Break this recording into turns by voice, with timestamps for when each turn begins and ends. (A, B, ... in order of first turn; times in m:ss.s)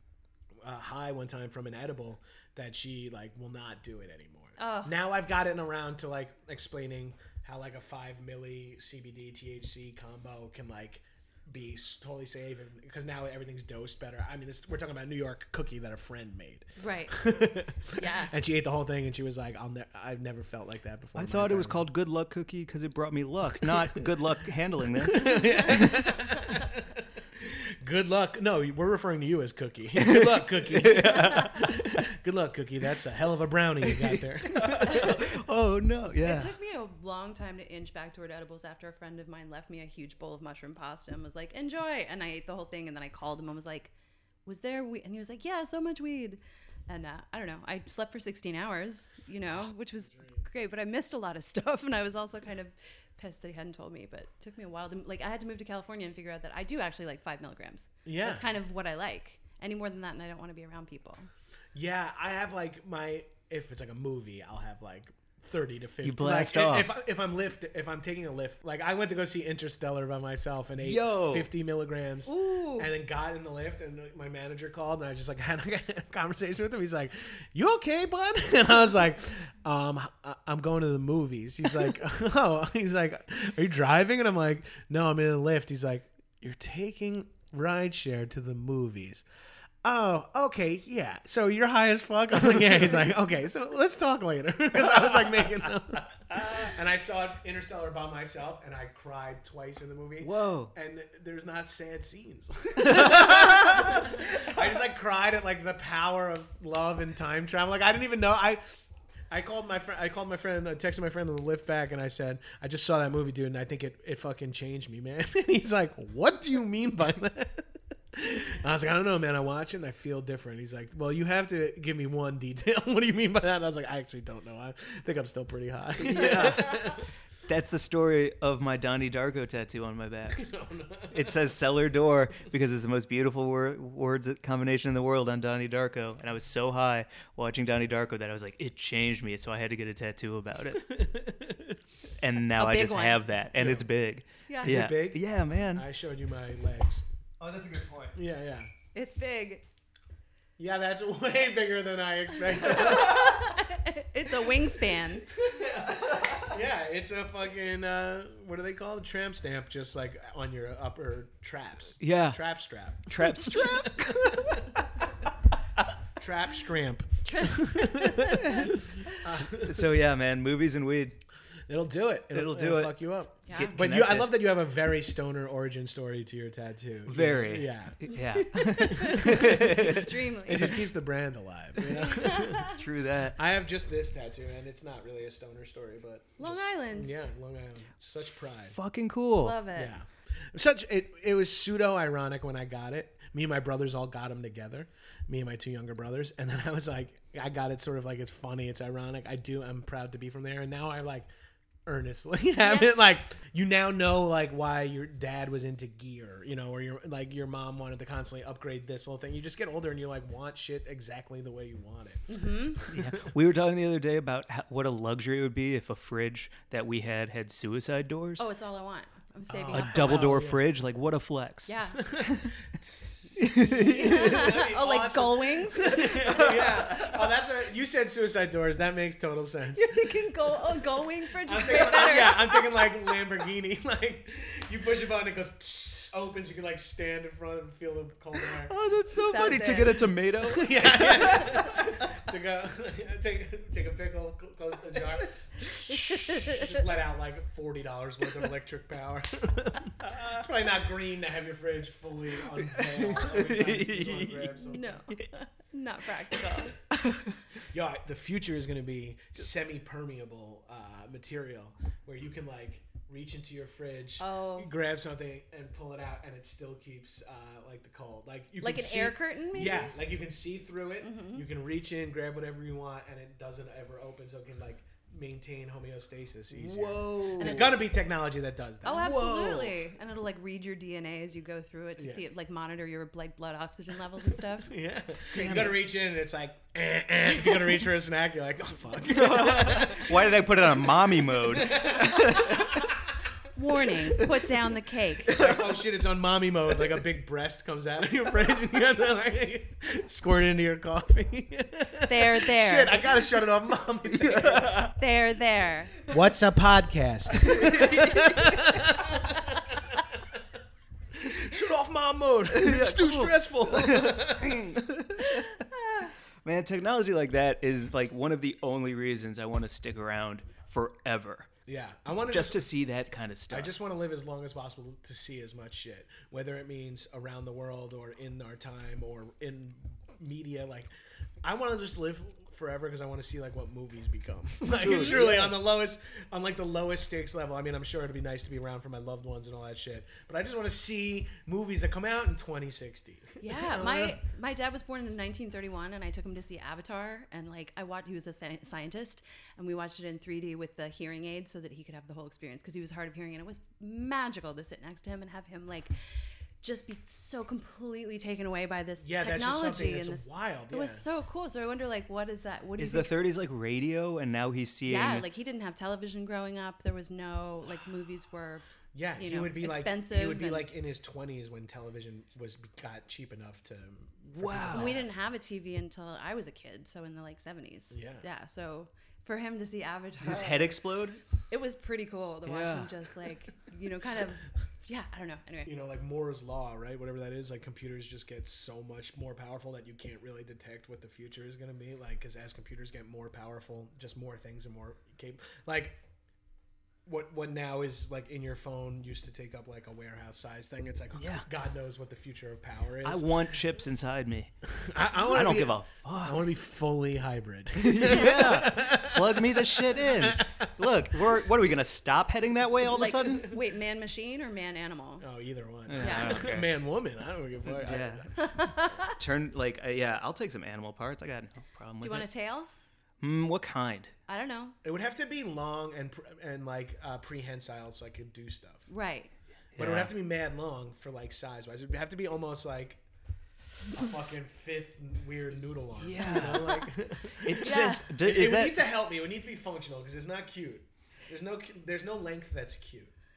0:00.6-0:21.8 A
0:04.6-0:04.9 B
0:16.8-0:17.2 B
0:18.0-0:18.3 B
0:21.2-0:26.0 C
0:25.0-0:35.2 A
0:30.0-0:32.0 C
0:33.8-0:36.5 C
0:34.9-0:35.2 B
0:36.2-0:43.9 B
0:44.4-1:01.3 B
0:50.0-0:50.4 A
0:58.0-0:58.4 A
1:01.7-1:29.2 A
1:06.0-1:06.9 C
1:10.8-1:11.5 C
1:12.2-1:12.9 B
1:29.8-1:48.6 A
1:34.7-1:35.7 C
1:36.3-1:36.7 C
1:40.2-1:40.7 C
1:42.8-1:44.2 C
1:49.3-2:07.1 A
2:06.0-2:10.5 C
2:10.3-2:11.2 A
2:11.1-2:20.8 C
2:20.8-2:21.8 A
2:22.2-2:25.9 C
2:22.6-2:23.2 B
2:23.5-2:23.9 A
2:24.5-2:24.8 B
2:24.6-2:27.0 A
2:27.4-2:28.2 C
2:28.1-2:28.7 A
2:28.9-2:29.6 B
2:30.6-2:33.4 A
2:32.6-2:35.3 B
2:35.5-2:44.7 A
2:35.6-2:36.5 C
2:42.0-2:42.4 C
2:43.1-2:44.6 C
2:46.2-2:49.9 A
2:47.2-2:48.7 B
2:48.4-2:48.7 C
2:49.2-2:51.2 C
2:51.7-2:58.2 A
2:52.3-2:53.0 C
2:53.5-2:53.8 B
2:53.5-2:54.4 C
2:57.1-3:00.8 C
2:58.4-3:00.8 B
2:58.9-3:02.8 A
3:01.9-3:02.8 B
3:02.7-3:03.4 C
3:03.3-3:08.8 A
3:06.4-3:07.1 B
3:08.7-3:09.6 C
3:09.4-3:09.9 B
3:09.7-3:21.3 A
3:21.8-3:33.3 A
3:22.6-3:22.9 B
3:32.3-3:32.8 B
3:32.9-3:38.4 C
3:38.4-3:40.4 B
3:39.5-3:40.6 A
3:39.7-3:42.5 C
3:41.7-3:42.0 B
3:42.0-3:50.1 A
3:43.4-3:44.5 C
3:43.6-3:46.4 B
3:46.0-3:47.2 C
3:49.7-3:52.9 B
3:51.4-3:58.7 A
3:58.6-4:02.0 C
3:59.2-4:00.0 B
4:00.4-4:15.0 A
4:05.9-4:06.5 C
4:06.0-4:06.7 B
4:10.0-4:10.4 C
4:12.5-4:15.2 C
4:14.6-4:16.8 B
4:17.6-4:39.6 A
4:24.2-4:24.7 B
4:28.6-4:29.9 B
4:31.0-4:31.4 B
4:36.5-4:37.8 C
4:37.4-4:37.7 B
4:38.8-4:44.7 B
4:39.0-4:39.7 C
4:42.0-4:42.2 A
4:44.6-4:52.9 A
4:45.3-4:45.7 B
4:45.3-4:45.8 C
4:49.0-4:52.8 C
4:53.5-4:55.4 B
4:54.1-4:54.4 C
4:55.2-5:04.9 A
4:55.3-4:55.8 C
5:02.1-5:03.2 B
5:04.1-5:04.9 C
5:04.8-5:05.9 B
5:06.0-5:10.4 A
5:07.4-5:08.6 C
5:11.1-5:14.8 A
5:12.5-5:15.6 C
5:16.4-5:21.5 C
5:21.6-5:22.7 A
5:22.3-5:23.8 C
5:23.5-5:30.9 A
5:31.4-5:44.2 A
5:34.8-5:35.6 C
5:43.4-5:55.9 B
5:56.6-6:03.1 B
5:59.0-6:01.0 A
6:02.8-6:05.3 C
6:04.8-6:08.6 B
6:08.9-6:15.1 A
6:09.2-6:10.7 B
6:14.3-6:15.0 C
6:14.7-6:20.8 B
6:17.9-6:18.2 A
6:20.2-6:21.2 C
6:21.5-6:25.7 B
6:22.4-6:23.0 C
6:25.6-6:36.0 A
6:37.0-6:43.4 A
6:41.2-6:41.4 C
6:43.0-6:44.5 C
6:44.7-6:50.7 A
6:45.2-6:46.5 C
6:47.8-6:53.5 C
6:52.9-6:55.2 B
6:55.2-6:58.3 A
6:55.9-6:56.7 C
6:56.0-6:56.4 B
6:57.6-6:58.3 C
6:58.3-6:59.2 B
6:59.1-7:02.3 C
7:02.0-7:02.7 B
7:03.2-7:04.1 C
7:04.3-7:04.7 B
7:04.8-7:08.9 A
7:08.9-7:09.3 B
7:09.7-7:10.1 C
7:09.8-7:13.0 A
7:13.9-7:23.1 A
7:16.0-7:16.8 C
7:17.4-7:18.8 C
7:17.6-7:18.1 B